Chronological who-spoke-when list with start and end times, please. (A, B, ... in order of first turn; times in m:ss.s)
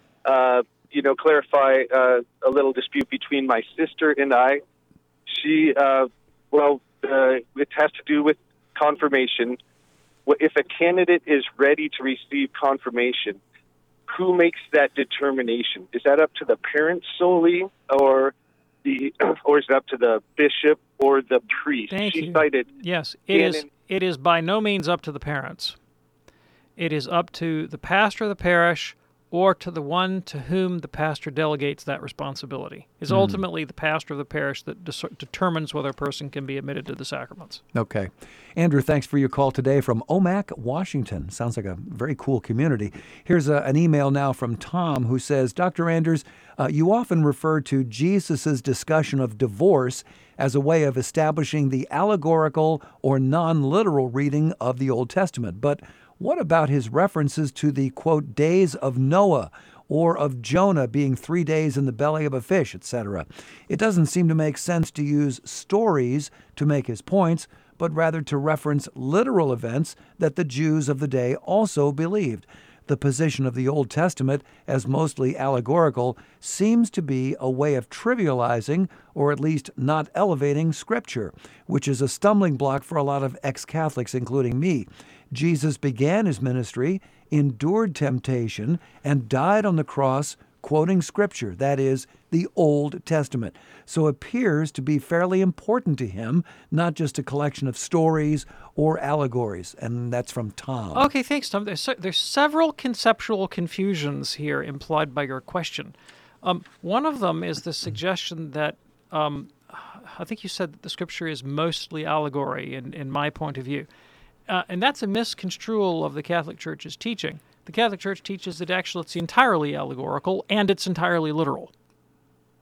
0:00.2-0:04.6 A
0:05.3-0:09.6 A
0:10.3-0:13.4 A
0:14.1-0:22.7 A
0:21.9-0:25.8 B
0:23.3-0:23.7 A
0:26.8-0:37.6 B
0:33.1-0:33.4 C
0:37.7-1:41.1 C
1:40.9-1:53.9 B
1:54.5-2:01.7 B